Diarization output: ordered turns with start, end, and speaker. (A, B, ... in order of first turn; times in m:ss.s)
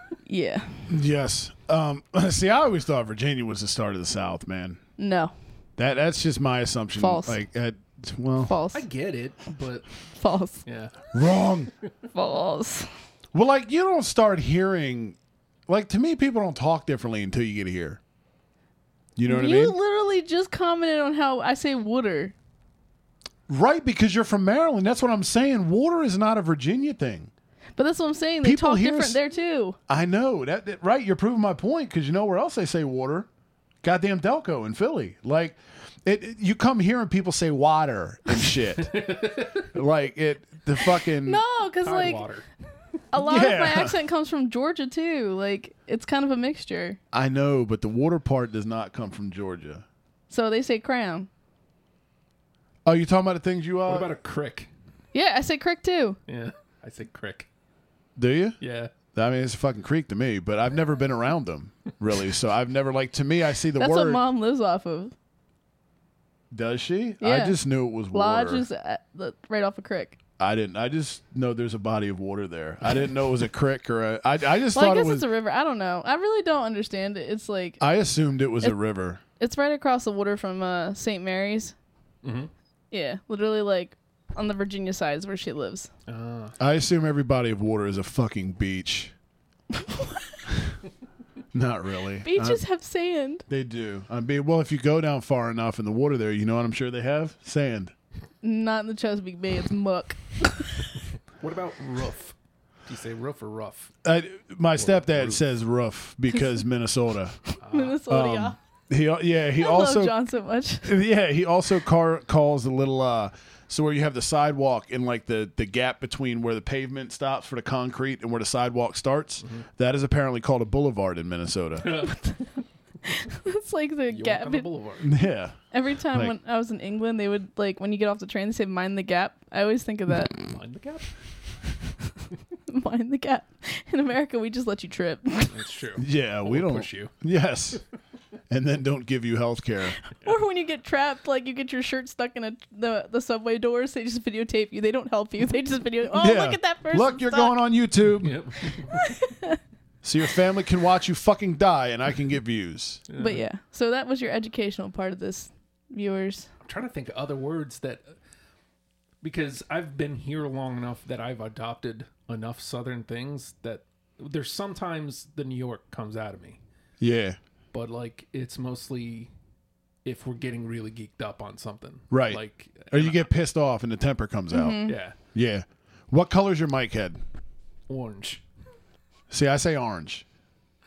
0:00.3-0:00.9 A
0:00.9-0:04.8 B
0:05.0-0:05.3 A
0:05.8-0:08.5 B
0:07.0-0:07.4 A
0:08.4-0:08.8 A
0:08.7-0:09.9 C
0:10.2-0:10.6 A
0:10.6-0:11.0 C
0:11.1-0:11.7 B
0:12.1-0:12.9 A
0:13.3-0:18.0 B
0:19.2-0:19.8 B
0:19.3-0:22.3 A
0:23.5-0:27.3 B
0:27.8-0:29.8 A
0:28.4-0:29.2 B
0:29.9-0:33.3 B
0:33.8-0:38.9 B
0:38.8-0:39.7 C
0:39.7-0:41.4 B
0:41.3-0:42.2 A
0:41.8-0:42.4 C
0:43.1-0:47.0 A
0:43.2-0:43.9 B
0:47.1-0:49.8 B
0:50.3-0:51.3 A
0:52.8-0:54.1 B
0:53.8-0:54.7 C
0:55.1-0:56.2 A
0:56.3-0:57.5 C
0:58.2-0:58.6 B
0:58.6-0:58.9 C
0:59.1-1:04.2 B
1:03.8-1:05.1 A
1:06.5-1:08.6 B
1:07.2-1:07.6 A
1:08.1-1:10.2 A
1:10.4-1:15.3 B
1:14.7-1:17.8 A
1:17.8-1:19.2 B
1:19.4-1:21.7 A
1:22.2-1:22.5 C
1:22.9-1:25.9 A
1:26.1-1:26.5 C
1:26.6-1:29.1 B
1:29.7-1:30.2 A
1:31.5-1:32.6 B
1:32.2-1:33.4 A
1:33.5-1:37.9 B
1:38.4-1:40.8 A
1:41.4-1:42.3 C
1:42.9-1:43.9 C
1:44.0-1:47.4 B
1:44.8-1:45.4 C
1:46.3-1:46.6 A
1:47.5-1:48.6 A
1:47.6-1:48.0 C
1:48.1-1:50.1 B
1:49.6-1:50.9 A
1:50.8-2:01.9 B
2:01.8-2:02.5 C
2:02.1-2:02.4 A
2:03.1-2:04.7 A
2:04.1-2:05.1 C
2:05.0-2:05.5 B
2:05.7-2:10.3 A
2:10.4-2:11.1 C
2:12.7-2:15.6 A
2:15.5-2:17.1 C
2:16.0-2:17.8 B
2:18.5-2:20.0 B
2:20.1-2:27.6 A
2:26.1-2:28.4 B
2:28.2-2:29.0 C
2:28.9-2:29.6 A
2:30.0-2:33.0 B
2:33.1-2:33.4 C
2:33.2-2:36.5 A
2:36.6-2:38.1 C
2:39.2-2:46.6 C
2:47.0-2:47.4 B
2:47.7-2:49.3 C
2:50.0-2:53.3 C
2:52.1-2:54.8 B
2:54.5-2:55.0 A
2:54.9-2:55.2 C
2:55.3-2:57.2 B
2:57.9-2:58.4 C
2:59.3-3:00.2 B